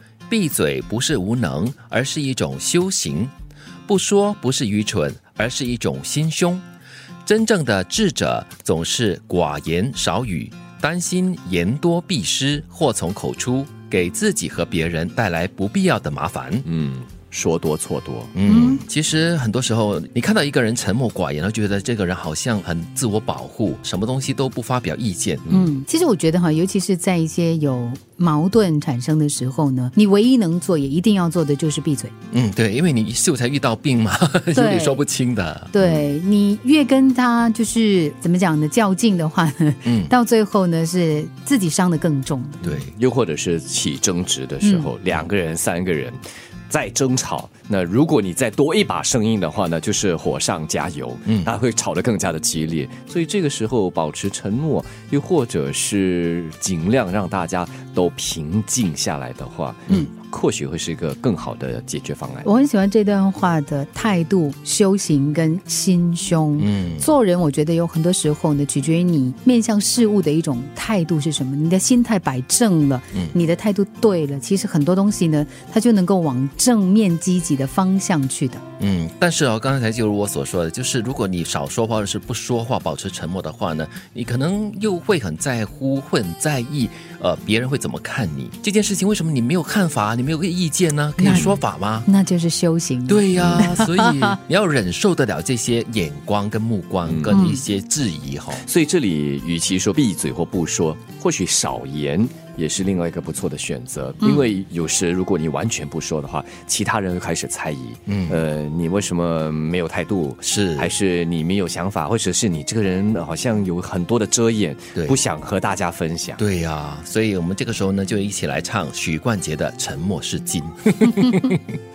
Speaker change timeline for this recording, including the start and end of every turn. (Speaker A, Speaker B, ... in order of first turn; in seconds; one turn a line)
Speaker A: 0.3-3.3
Speaker A: 3.9-6.6
Speaker A: 7.2-16.6
Speaker B: 16.6-18.3
Speaker A: 18.3-25.4
Speaker C: 18.4-18.8
Speaker B: 25.4-25.7
Speaker C: 25.5-32.1
Speaker A: 32.3-36.0
Speaker C: 34.5-35.0
Speaker C: 35.7-42.6
Speaker A: 39.8-40.1
Speaker A: 42.6-42.9
Speaker B: 42.6-46.2
Speaker C: 44.6-44.9
Speaker B: 46.7-62.5
Speaker A: 51.3-51.5
Speaker C: 62.4-78.6
Speaker A: 66.6-67.1
Speaker A: 78.8-92.1
Speaker C: 91.2-91.5
Speaker B: 91.2-91.5
Speaker C: 92.0-94.3
Speaker A: 93.0-98.6
Speaker B: 93.4-93.8
Speaker B: 97.0-97.4
Speaker C: 97.3-97.6
Speaker B: 98.5-116.4
Speaker A: 108.1-108.4
Speaker A: 110.4-110.9
Speaker A: 114.9-115.2
Speaker A: 116.4-121.6